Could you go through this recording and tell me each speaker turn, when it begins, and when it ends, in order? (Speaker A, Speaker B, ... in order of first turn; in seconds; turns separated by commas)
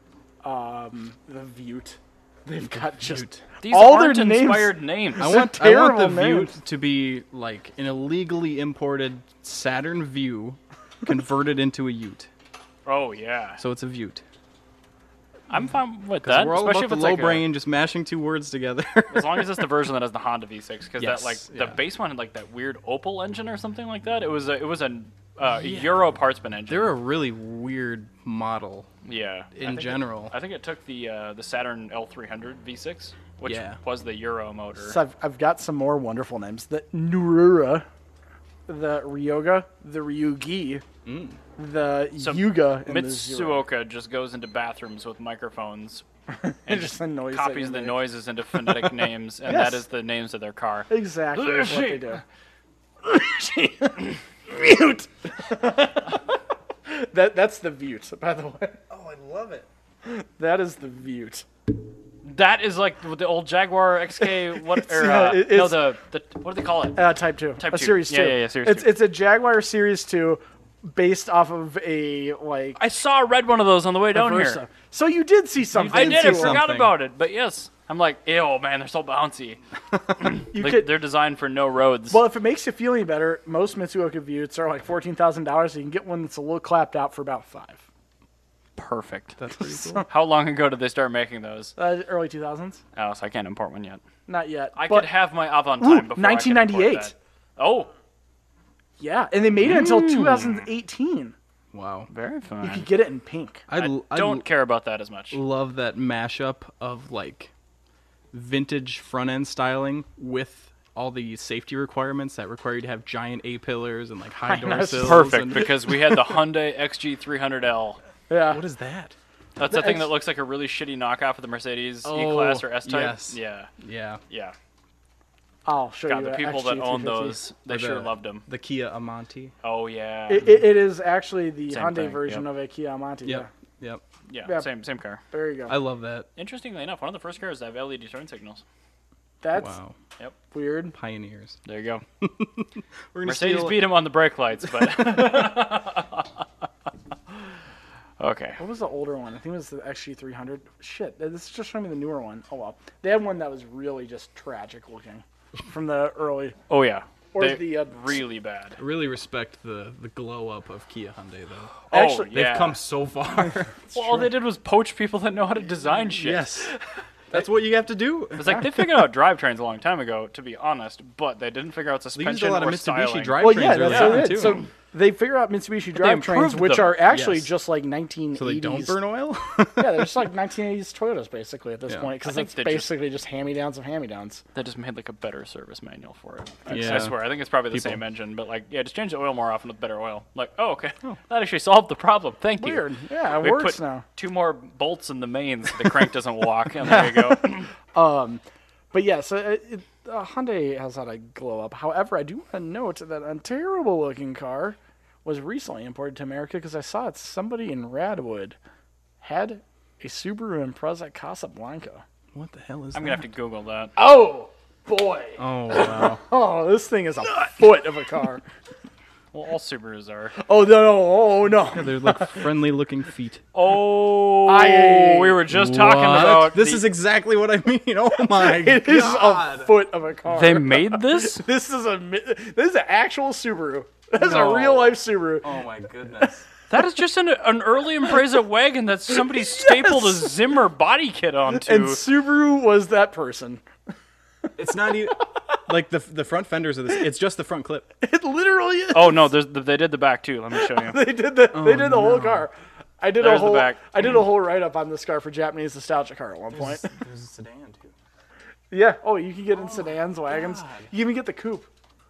Speaker A: 0.4-6.5, Speaker B: 2.9-3.4, Speaker C: 3.6-5.4, Speaker B: 5.2-12.3, Speaker C: 12.8-13.6, Speaker B: 13.6-14.2, Speaker C: 15.5-17.5, Speaker B: 16.2-19.7, Speaker C: 19.1-26.9, Speaker B: 21.0-21.8, Speaker B: 25.5-26.0, Speaker B: 26.7-28.9, Speaker C: 29.0-35.0, Speaker B: 29.5-30.3, Speaker B: 33.5-33.8, Speaker A: 34.8-37.9, Speaker A: 38.7-40.8, Speaker B: 41.0-41.4, Speaker A: 41.6-43.6, Speaker C: 42.2-46.0, Speaker A: 46.4-48.0, Speaker C: 46.6-52.2, Speaker A: 49.5-49.8, Speaker A: 50.9-52.2, Speaker A: 53.0-58.8, Speaker B: 58.9-59.7, Speaker A: 60.0-61.5, Speaker C: 62.2-67.0, Speaker A: 64.6-65.9, Speaker A: 67.0-72.8, Speaker C: 67.6-68.9, Speaker C: 72.8-74.6, Speaker A: 74.1-76.6, Speaker C: 75.7-79.6, Speaker B: 75.8-77.0, Speaker C: 80.2-82.2, Speaker A: 80.5-81.0, Speaker A: 82.1-87.8, Speaker C: 88.8-89.4, Speaker B: 89.4-90.1, Speaker C: 90.0-91.7, Speaker A: 91.8-92.8, Speaker C: 93.0-94.0, Speaker A: 94.3-95.1, Speaker C: 94.7-97.9, Speaker A: 95.8-97.1, Speaker A: 99.0-101.3, Speaker C: 99.7-100.6, Speaker B: 101.7-102.1, Speaker C: 102.1-102.9, Speaker A: 102.6-103.6, Speaker B: 103.7-104.5, Speaker C: 103.7-105.4, Speaker B: 105.3-107.5, Speaker B: 108.3-115.9, Speaker A: 114.5-115.6, Speaker C: 115.0-118.0, Speaker A: 118.3-118.6, Speaker B: 118.5-119.1, Speaker C: 119.5-123.7, Speaker A: 119.6-120.1, Speaker B: 122.0-124.2, Speaker C: 124.3-124.5, Speaker A: 125.6-127.4, Speaker C: 126.1-128.4, Speaker B: 127.7-129.5, Speaker C: 129.6-130.6, Speaker A: 130.3-133.5, Speaker C: 131.7-132.4, Speaker B: 133.2-134.0, Speaker C: 134.3-135.2, Speaker A: 134.4-134.7, Speaker A: 135.3-135.8, Speaker B: 135.7-136.3, Speaker C: 136.3-138.6, Speaker A: 139.4-139.7, Speaker B: 139.5-139.9, Speaker A: 140.5-140.9, Speaker B: 140.9-141.6, Speaker C: 141.6-142.0, Speaker B: 142.2-144.0, Speaker C: 143.2-146.4, Speaker C: 148.2-148.6, Speaker A: 148.6-156.6, Speaker C: 156.7-158.8, Speaker A: 157.3-158.2, Speaker B: 158.8-161.8, Speaker C: 161.9-162.8, Speaker A: 161.9-162.4, Speaker B: 162.3-163.8, Speaker A: 163.9-164.2, Speaker C: 163.9-166.8, Speaker B: 166.2-166.7, Speaker B: 167.3-168.8, Speaker C: 168.4-174.5, Speaker B: 172.1-174.6, Speaker A: 173.4-179.0, Speaker C: 175.9-177.0, Speaker B: 177.0-177.5, Speaker B: 178.3-180.1, Speaker A: 179.8-184.4, Speaker C: 182.2-182.9, Speaker C: 184.5-197.7, Speaker B: 186.7-188.0, Speaker A: 192.6-194.0, Speaker A: 196.8-208.6, Speaker A: 209.2-212.0, Speaker B: 212.3-213.2, Speaker C: 212.9-213.9, Speaker A: 214.0-218.4, Speaker B: 215.4-216.2, Speaker C: 219.3-220.4, Speaker A: 220.4-222.5, Speaker B: 221.6-223.4, Speaker C: 223.5-226.9, Speaker A: 224.4-225.4, Speaker B: 225.5-229.7, Speaker A: 228.2-235.5, Speaker C: 230.3-231.4, Speaker B: 234.2-236.5, Speaker C: 236.7-242.0, Speaker A: 239.5-240.2, Speaker A: 241.6-243.6, Speaker B: 244.6-247.9, Speaker A: 248.0-249.3, Speaker C: 248.9-251.0, Speaker A: 250.5-256.8, Speaker B: 251.5-252.5, Speaker C: 253.2-253.8, Speaker B: 256.6-257.9, Speaker A: 258.7-261.7, Speaker B: 259.6-260.9